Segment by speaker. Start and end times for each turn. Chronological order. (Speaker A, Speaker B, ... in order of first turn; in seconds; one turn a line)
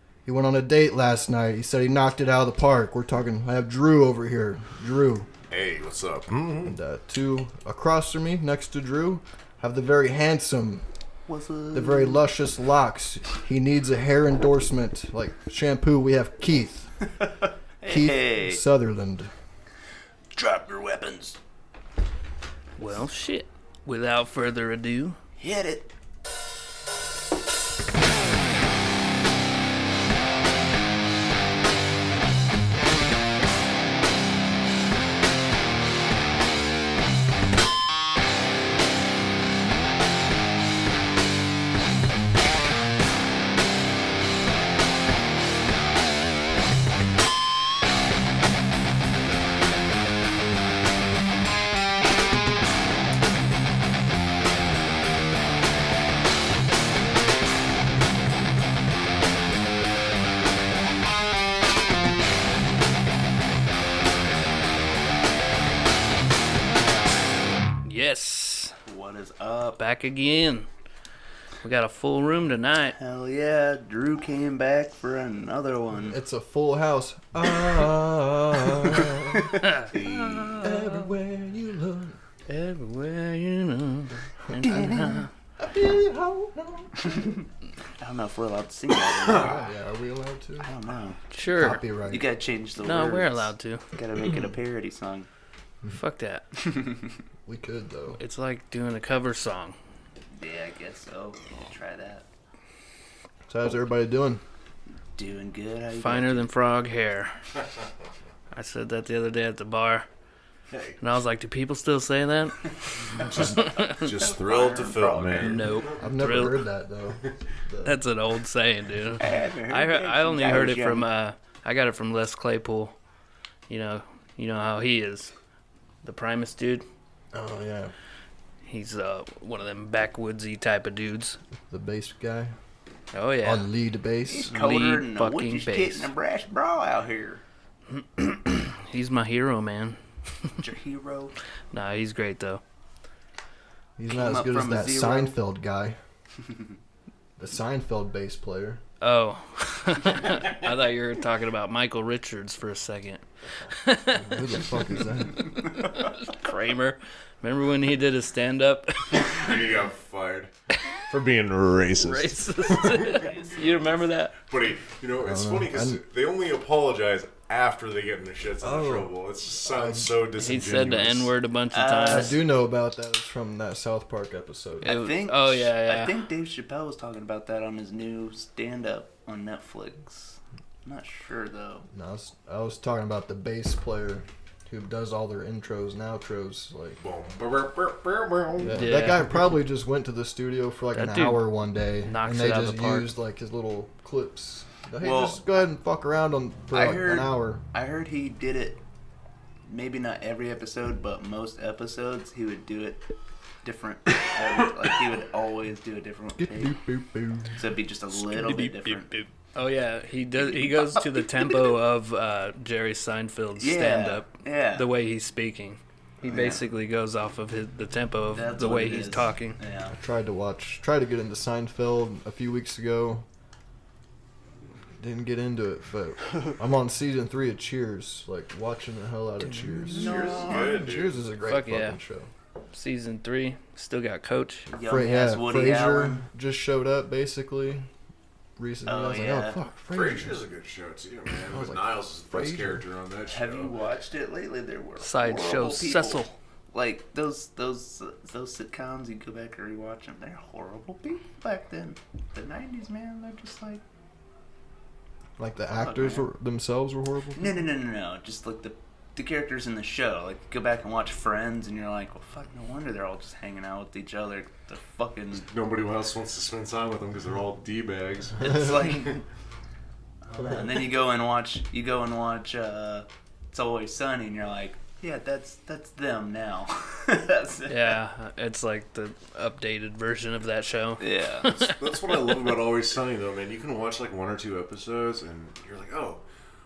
Speaker A: 0.2-5.3
Speaker B: 5.5-6.8
Speaker A: 6.6-10.8
Speaker C: 11.3-12.2
Speaker A: 11.7-17.1
Speaker C: 17.8-18.6
Speaker A: 17.9-19.4
Speaker C: 20.4-21.4
Speaker D: 22.8-25.2
Speaker C: 25.4-25.9
Speaker D: 67.8-68.7
Speaker C: 68.8-69.8
Speaker D: 69.8-70.7
Speaker D: 71.6-73.0
Speaker C: 73.0-76.2
Speaker A: 75.9-79.5
Speaker C: 79.1-79.4
Speaker D: 79.6-81.1
Speaker B: 79.9-80.7
Speaker A: 80.6-82.2
Speaker D: 82.5-85.3
Speaker C: 84.6-85.3
Speaker A: 85.6-87.3
Speaker C: 87.0-87.4
Speaker C: 88.0-89.6
Speaker A: 89.3-90.7
Speaker C: 90.6-91.2
Speaker D: 91.3-91.8
Speaker A: 91.5-92.2
Speaker C: 92.0-95.3
Speaker D: 92.8-93.9
Speaker D: 95.9-96.5
Speaker C: 96.6-97.1
Speaker A: 97.5-98.2
Speaker D: 98.2-99.8
Speaker C: 100.3-102.2
Speaker A: 103.5-104.4
Speaker C: 105.2-106.5
Speaker D: 105.9-107.5
Speaker D: 108.5-110.1
Speaker B: 110.7-111.0
Speaker D: 111.0-114.1
Speaker B: 113.1-116.0
Speaker C: 113.5-115.7
Speaker D: 115.4-116.6
Speaker A: 116.0-118.0
Speaker D: 117.8-123.0
Speaker C: 119.2-121.1
Speaker D: 123.7-125.3
Speaker D: 126.0-126.8
Speaker A: 127.3-127.9
Speaker D: 128.6-131.4
Speaker A: 131.7-132.6
Speaker D: 133.1-133.7
Speaker A: 133.4-134.5
Speaker C: 134.2-137.4
Speaker D: 134.5-136.1
Speaker D: 137.9-140.6
Speaker C: 140.6-141.3
Speaker D: 141.7-142.6
Speaker A: 144.0-146.0
Speaker C: 144.1-145.3
Speaker A: 147.4-148.8
Speaker D: 149.0-159.5
Speaker A: 154.1-155.5
Speaker B: 159.1-163.4
Speaker D: 162.0-164.3
Speaker C: 163.1-163.6
Speaker B: 164.4-171.3
Speaker A: 165.2-166.0
Speaker A: 168.6-169.1
Speaker A: 169.7-170.1
Speaker D: 170.4-172.4
Speaker C: 171.7-172.4
Speaker A: 172.1-174.9
Speaker C: 174.8-181.9
Speaker D: 174.8-176.1
Speaker A: 181.9-187.0
Speaker B: 187.0-189.4
Speaker A: 188.6-197.6
Speaker D: 188.8-189.3
Speaker D: 190.9-191.4
Speaker D: 192.0-193.1
Speaker C: 195.0-195.4
Speaker C: 196.7-198.8
Speaker C: 199.7-203.1
Speaker C: 203.6-206.8
Speaker A: 206.4-207.6
Speaker C: 207.5-209.1
Speaker D: 208.1-219.6
Speaker C: 210.4-211.5
Speaker C: 213.6-214.9
Speaker C: 216.2-216.6
Speaker C: 218.3-220.0
Speaker A: 219.9-223.2
Speaker A: 225.0-232.3
Speaker C: 229.8-230.8
Speaker B: 229.9-231.1
Speaker D: 231.4-232.0
Speaker D: 232.7-234.7
Speaker C: 234.7-236.2
Speaker A: 234.9-237.9
Speaker A: 238.6-240.4
Speaker C: 238.8-239.6
Speaker B: 239.9-243.7
Speaker A: 241.5-242.8
Speaker C: 243.3-253.8
Speaker D: 245.0-246.4
Speaker A: 255.4-257.6
Speaker C: 255.8-256.2
Speaker C: 257.3-265.4
Speaker B: 265.3-269.1
Speaker C: 268.4-269.2
Speaker C: 270.2-277.9
Speaker D: 277.7-282.5
Speaker C: 281.0-281.5
Speaker B: 281.5-286.2